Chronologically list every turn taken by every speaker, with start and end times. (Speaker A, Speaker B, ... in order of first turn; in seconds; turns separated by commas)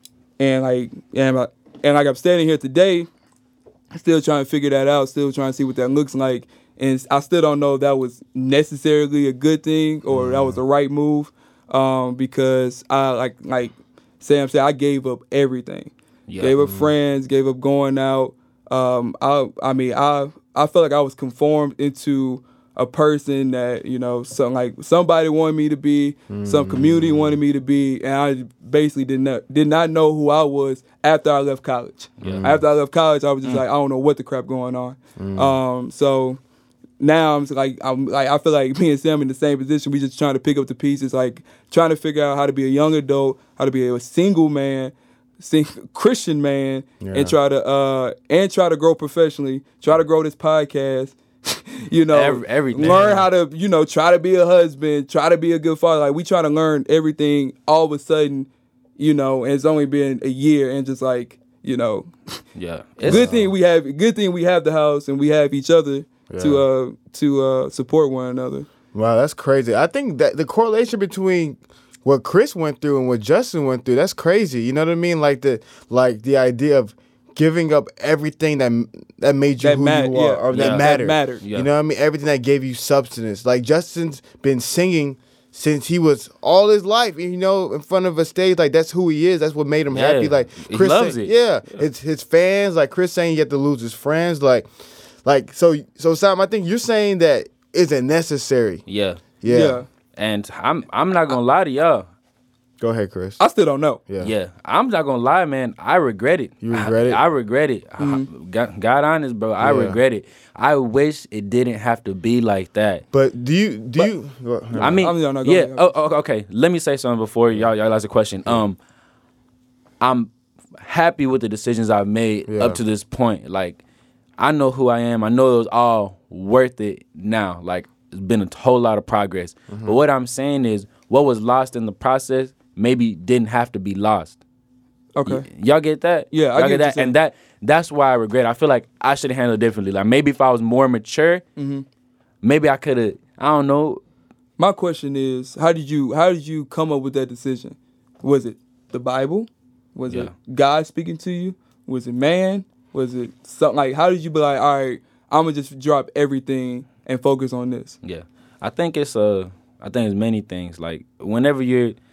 Speaker A: 0.4-3.1, Speaker A: 3.9-36.4, Speaker B: 10.1-10.6, Speaker C: 16.3-16.6, Speaker B: 16.6-16.9, Speaker B: 26.3-27.4, Speaker C: 32.2-32.5, Speaker B: 32.2-32.6, Speaker B: 35.2-35.6, Speaker A: 37.0-62.4, Speaker B: 47.0-47.3, Speaker C: 52.1-53.2, Speaker C: 62.5-63.3, Speaker A: 63.0-68.7, Speaker B: 63.1-63.5, Speaker B: 66.3-66.6, Speaker B: 68.9-94.7, Speaker A: 79.6-81.4, Speaker C: 80.5-80.9, Speaker C: 81.4-81.7, Speaker C: 89.9-91.8, Speaker B: 95.2-98.8, Speaker C: 98.9-99.2, Speaker B: 99.4-99.8, Speaker A: 99.5-99.9, Speaker C: 100.2-102.1, Speaker B: 102.8-103.4, Speaker A: 103.4-104.0, Speaker C: 104.2-113.0, Speaker B: 106.6-107.2, Speaker A: 108.0-108.3, Speaker B: 109.6-110.0, Speaker B: 113.1-115.1, Speaker C: 114.8-118.8, Speaker A: 114.9-115.9, Speaker C: 120.0-123.8, Speaker B: 122.5-122.8, Speaker C: 124.4-134.4, Speaker B: 129.7-130.0, Speaker A: 135.2-135.5, Speaker C: 135.2-141.4, Speaker A: 136.3-137.2, Speaker A: 141.6-141.8, Speaker C: 142.4-144.0, Speaker A: 144.6-158.0, Speaker C: 158.0-162.0